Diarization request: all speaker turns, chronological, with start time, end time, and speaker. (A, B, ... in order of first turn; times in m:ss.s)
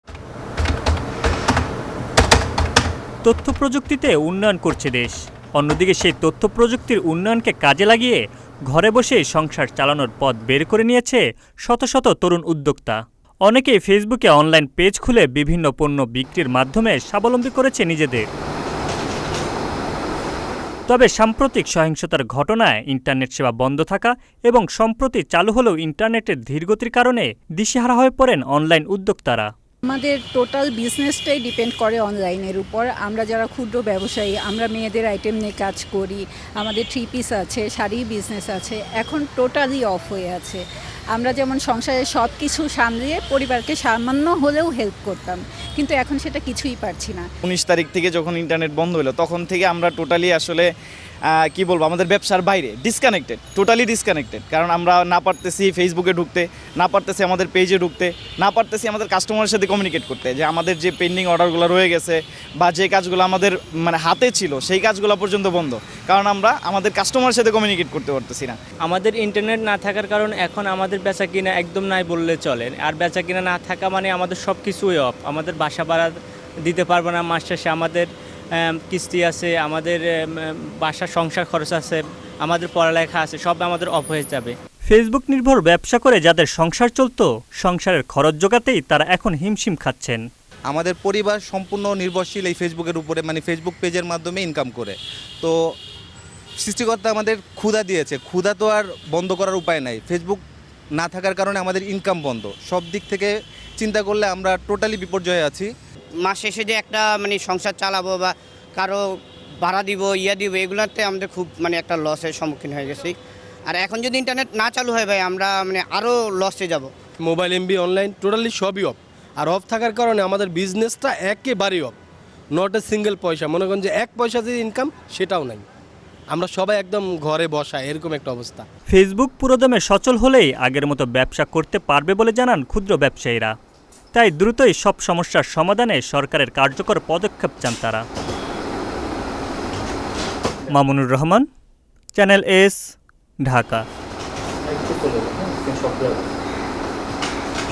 0:03.2-0:18.2 A
0:20.9-0:29.5 A
0:29.9-0:40.6 B
0:41.1-0:47.2 B
0:47.4-0:50.7 C
0:51.5-1:08.6 C
1:08.8-1:24.6 D
1:24.9-1:30.2 A
1:30.7-1:35.6 E
1:36.6-1:40.4 E
1:41.0-1:45.7 E
1:46.2-1:49.0 F
1:49.6-1:56.9 F
1:57.2-2:01.9 G
2:02.5-2:05.6 G
2:06.3-2:08.6 G
2:08.9-2:13.5 A
2:14.1-2:18.0 A
2:20.7-2:21.4 A
2:22.1-2:22.8 A
2:23.4-2:23.8 A
2:24.7-2:26.2 E